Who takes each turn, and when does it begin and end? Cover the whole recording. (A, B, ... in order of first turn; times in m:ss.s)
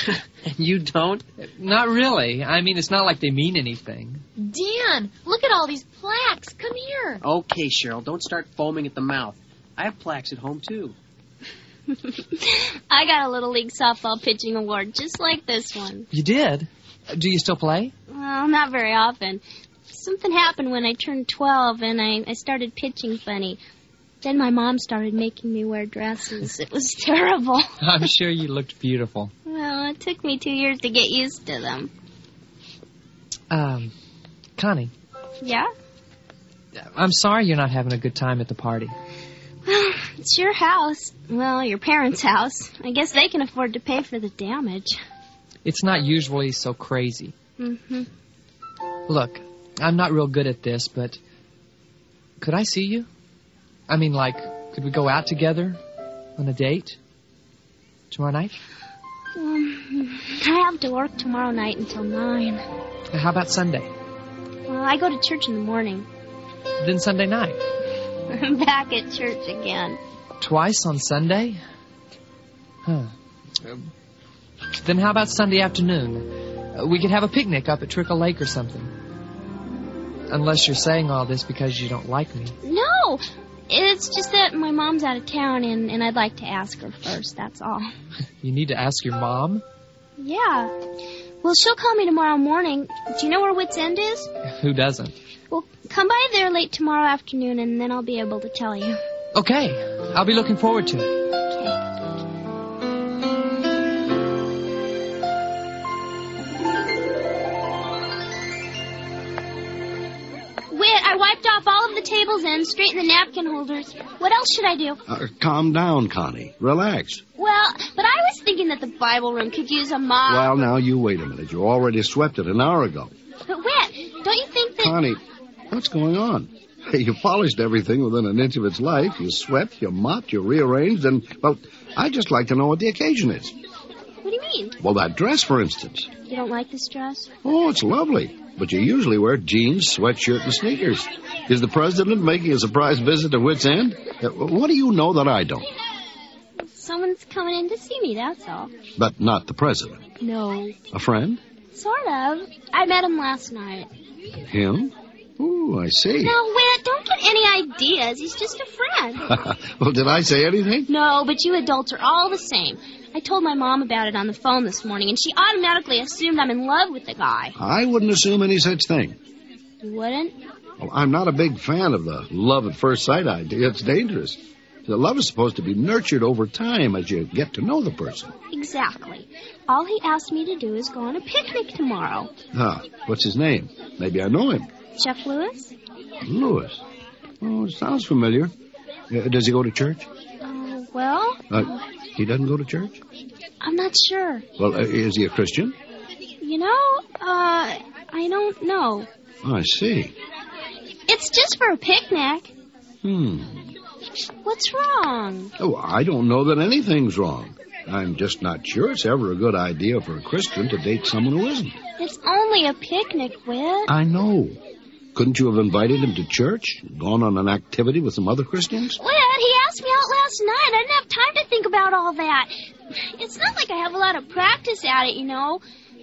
0:00.4-0:01.2 A
0:01.4-0:04.2 B
0:04.4-0:07.2 C
0:07.2-0:11.0 A
0:11.9-0:16.1 D
0:16.1-0:17.9 B
0:18.1-0:23.6 D
0:24.2-0:27.7 D
0:27.8-0:29.3 B
0:29.5-0:31.9 D
0:33.5-0:33.9 B
0:34.6-0:34.9 B
0:35.4-0:35.7 D
0:36.9-0:39.0 B
0:39.7-0:45.0 D
0:45.6-0:47.3 B
0:47.6-0:48.1 D
0:49.1-0:51.2 B
0:52.4-0:53.1 B
0:53.9-0:55.8 B
0:56.4-0:57.0 B
0:58.1-0:58.6 B
0:59.4-1:02.6 D
1:03.1-1:03.9 B
1:04.7-1:06.1 D
1:06.8-1:07.6 B
1:08.3-1:10.0 D
1:10.4-1:11.6 B
1:12.8-1:13.1 B
1:14.8-1:18.9 B
1:20.3-1:22.6 B
1:22.6-1:27.9 D
1:28.4-1:29.6 B
1:30.2-1:30.7 D
1:31.4-1:34.3 D
1:34.5-1:35.2 B
1:35.5-1:39.0 D
1:39.4-1:41.1 B
1:41.5-1:41.8 D
1:50.7-1:55.0 D
1:55.1-1:57.2 E
1:57.4-2:00.6 D
2:00.3-2:03.1 E
2:03.5-2:05.0 D
2:04.8-2:13.6 E
2:14.2-2:14.8 D
2:14.8-2:16.1 E
2:16.2-2:17.3 D
2:17.4-2:25.7 E
2:26.7-2:28.7 D
2:29.0-2:30.0 E
2:30.2-2:30.8 D
2:30.9-2:31.4 E
2:31.7-2:33.9 D
2:34.4-2:36.4 E
2:36.2-2:39.3 D
2:39.2-2:40.9 E
2:40.9-2:47.6 D
2:47.6-2:49.2 E
2:49.8-2:50.3 D
2:50.8-2:58.3 E
2:58.5-3:02.3 D
3:02.5-3:04.7 E
3:05.0-3:05.7 D
3:06.2-3:06.8 E
3:07.4-3:08.5 E
3:09.1-3:10.1 E
3:10.4-3:11.4 D
3:11.5-3:13.0 E
3:13.6-3:14.4 D
3:14.6-3:15.8 E
3:16.4-3:19.1 D
3:19.4-3:20.2 E
3:21.1-3:22.5 D
3:23.0-3:23.7 E
3:24.4-3:25.5 D
3:25.6-3:31.8 E
3:32.0-3:33.9 D
3:33.9-3:34.6 E
3:35.2-3:39.0 E
3:39.0-3:45.6 D